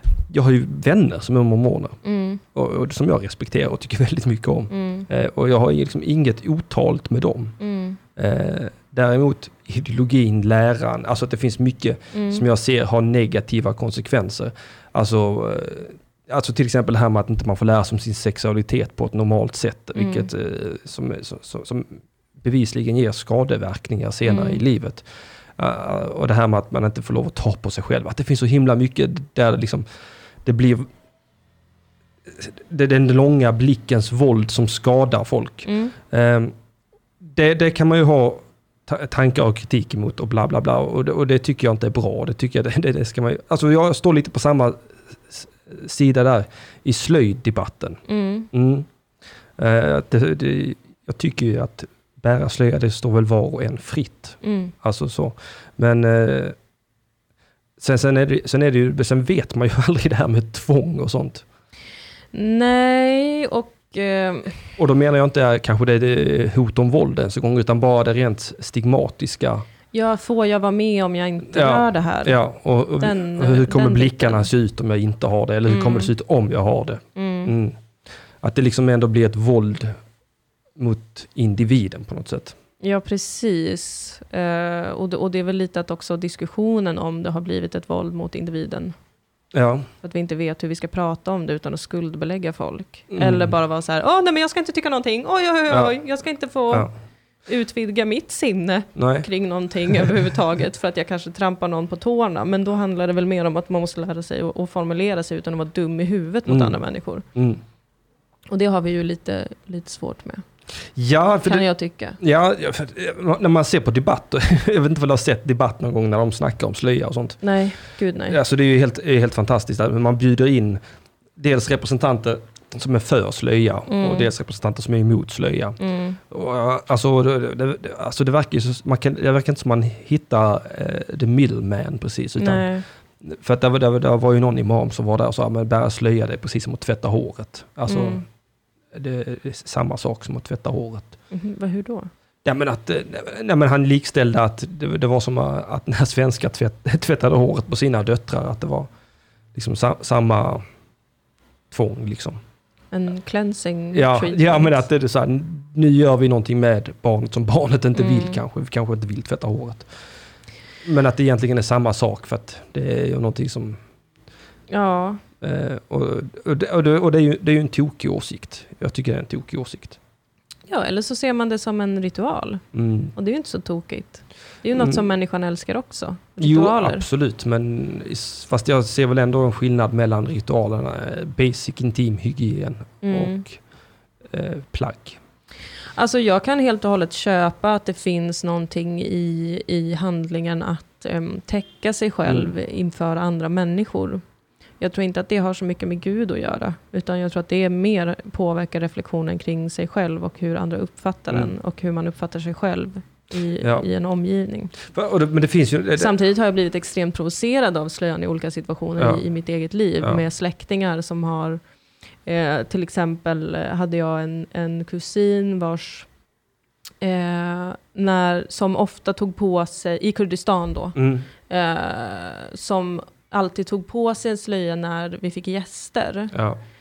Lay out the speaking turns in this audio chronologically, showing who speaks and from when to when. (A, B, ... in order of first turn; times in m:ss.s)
0:00.3-0:02.0 A
0:02.0-0:02.4 B
0:02.6-0:07.6 A
0:04.7-0:05.1 B
0:07.6-0:08.0 B
0:08.2-0:25.0 A
0:12.1-0:12.4 B
0:20.0-0:20.3 B
0:24.2-0:24.6 B
0:25.6-0:29.8 A
0:30.4-0:30.9 A
0:32.3-0:36.5 A
0:35.7-0:36.0 B
0:37.2-0:48.9 A
0:48.1-0:48.5 B
0:49.6-0:56.6 A
0:54.4-0:54.7 B
0:57.8-1:01.4 A
1:02.3-1:04.6 B
1:04.8-1:09.6 A
1:09.9-1:12.4 B
1:11.5-1:17.8 A
1:13.0-1:14.5 B
1:15.7-1:16.1 B
1:17.2-1:17.6 B
1:18.4-1:19.9 A
1:20.8-1:22.6 A
1:22.8-1:29.0 B
1:29.5-1:29.9 A
1:30.0-1:36.9 B
1:33.1-1:33.5 A
1:35.7-1:36.0 A
1:37.5-1:47.3 B
1:39.0-1:39.3 A
1:46.5-1:46.8 A
1:47.4-1:47.6 A
1:48.5-1:50.4 B
1:51.0-1:51.7 A
1:51.4-1:52.2 B
1:52.2-1:57.4 A
1:57.4-1:58.4 B
1:58.3-2:00.8 A
2:01.4-2:05.8 A
2:03.9-2:04.3 B
2:05.8-2:06.2 B
2:06.3-2:12.7 A
2:12.4-2:12.8 B
2:13.2-2:18.2 A
2:17.9-2:18.2 B
2:18.9-2:21.2 A
2:21.3-2:22.1 B
2:22.4-2:28.9 A
2:29.5-2:30.6 A
2:31.7-2:32.4 A
2:32.9-2:34.8 B
2:33.9-2:39.9 A
2:38.0-2:38.4 B
2:40.8-2:43.8 A
2:44.7-2:45.2 B
2:45.4-2:50.0 A
2:50.7-2:52.6 B
2:52.7-2:53.1 A
2:53.2-2:57.0 B
2:56.4-3:03.6 A
3:03.0-3:03.4 B
3:04.3-3:05.2 A
3:06.0-3:14.2 B
3:14.8-3:24.8 B
3:23.6-3:23.9 A
3:24.8-3:26.1 A
3:26.0-3:31.6 B
3:32.3-3:36.1 B
3:37.0-3:46.4 B
3:41.0-3:41.2 A
3:46.3-3:46.6 A